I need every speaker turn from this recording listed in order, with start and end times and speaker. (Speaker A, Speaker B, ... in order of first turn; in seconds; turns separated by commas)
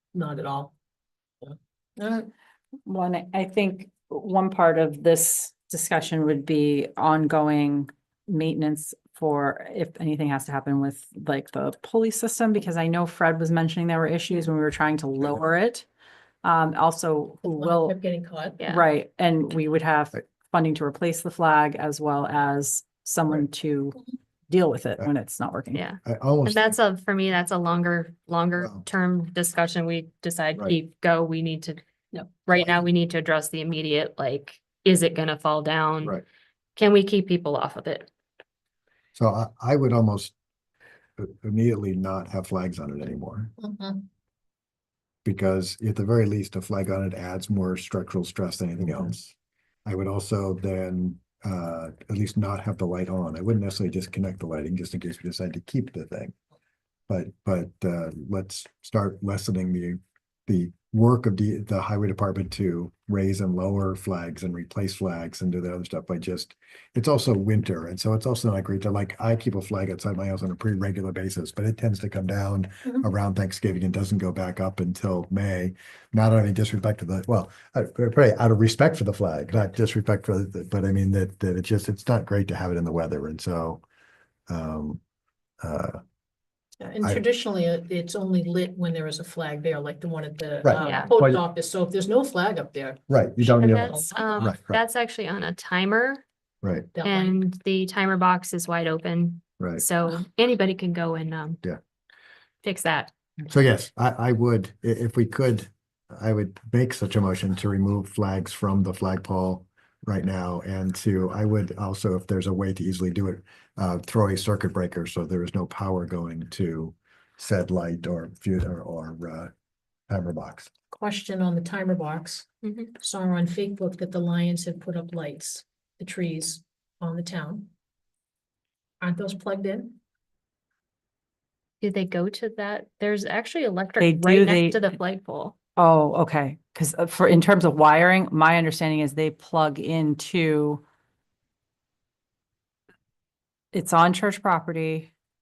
Speaker A: 0.1-0.7, Speaker A: 1.4-2.3, Speaker B: 2.9-15.9, Speaker B: 16.4-17.9, Speaker A: 17.4-18.6, Speaker C: 18.6-18.8, Speaker B: 18.7-25.8, Speaker C: 25.7-31.8, Speaker D: 26.0-26.8, Speaker D: 28.6-28.9, Speaker C: 32.4-36.2, Speaker C: 36.8-38.1, Speaker D: 39.2-40.3, Speaker D: 41.2-43.5, Speaker A: 43.6-44.1, Speaker D: 45.2-49.3, Speaker D: 49.9-56.3, Speaker D: 57.1-83.8, Speaker D: 84.5-85.0, Speaker D: 85.6-86.0, Speaker A: 86.8-93.0, Speaker D: 90.6-91.4, Speaker C: 90.8-91.1, Speaker D: 93.1-94.8, Speaker A: 93.6-94.5, Speaker C: 93.6-96.2, Speaker D: 96.6-96.9, Speaker A: 96.9-97.4, Speaker C: 97.0-101.6, Speaker D: 99.6-99.8, Speaker C: 102.6-103.1, Speaker D: 103.5-119.5, Speaker D: 120.1-120.7, Speaker A: 120.9-122.5, Speaker C: 122.6-122.9, Speaker A: 123.0-127.7, Speaker A: 129.0-130.0, Speaker C: 131.8-135.6, Speaker B: 134.0-134.9, Speaker B: 135.8-140.8, Speaker B: 143.7-145.1